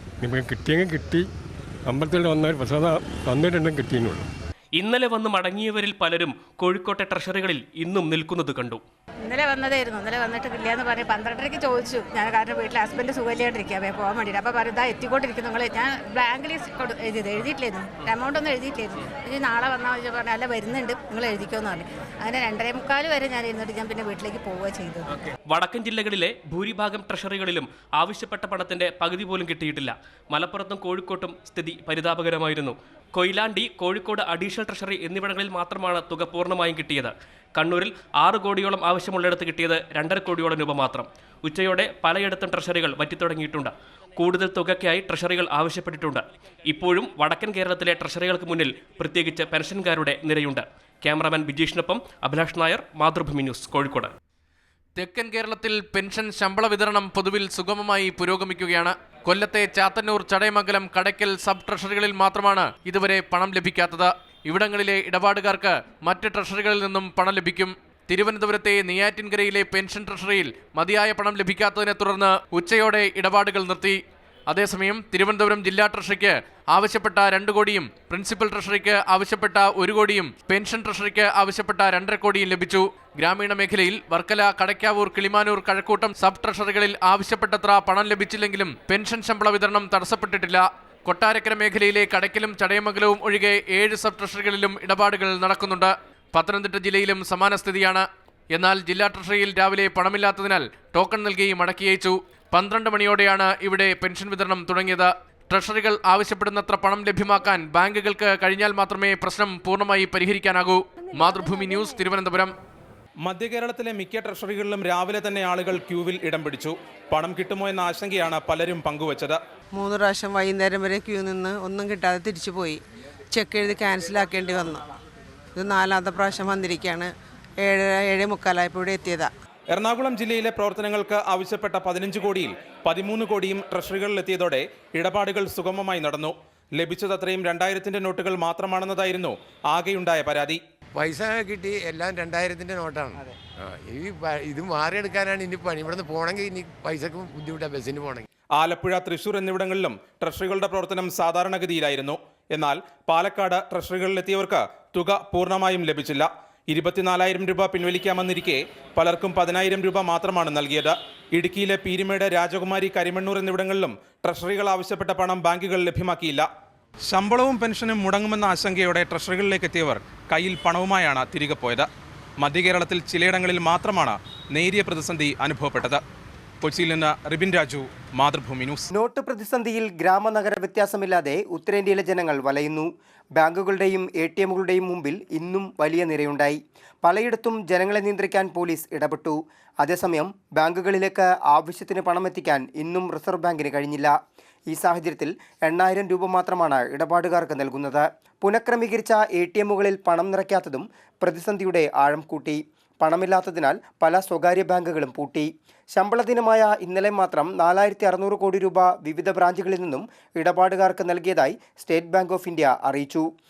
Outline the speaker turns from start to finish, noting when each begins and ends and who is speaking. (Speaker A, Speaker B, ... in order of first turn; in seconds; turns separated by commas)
Speaker A: 0.2-1.3, Speaker A: 1.9-4.3, Speaker B: 4.8-8.8, Speaker C: 9.2-25.1, Speaker B: 25.5-54.1, Speaker D: 55.0-112.5, Speaker E: 113.2-119.4, Speaker F: 119.7-122.8, Speaker F: 123.3-124.9, Speaker F: 125.6-129.3, Speaker E: 129.7-140.6, Speaker G: 140.9-148.3, Speaker E: 148.6-166.5, Speaker E: 167.1-171.9, Speaker E: 172.4-176.0, Speaker E: 176.6-178.9, Speaker H: 178.9-194.1, Speaker H: 194.7-213.3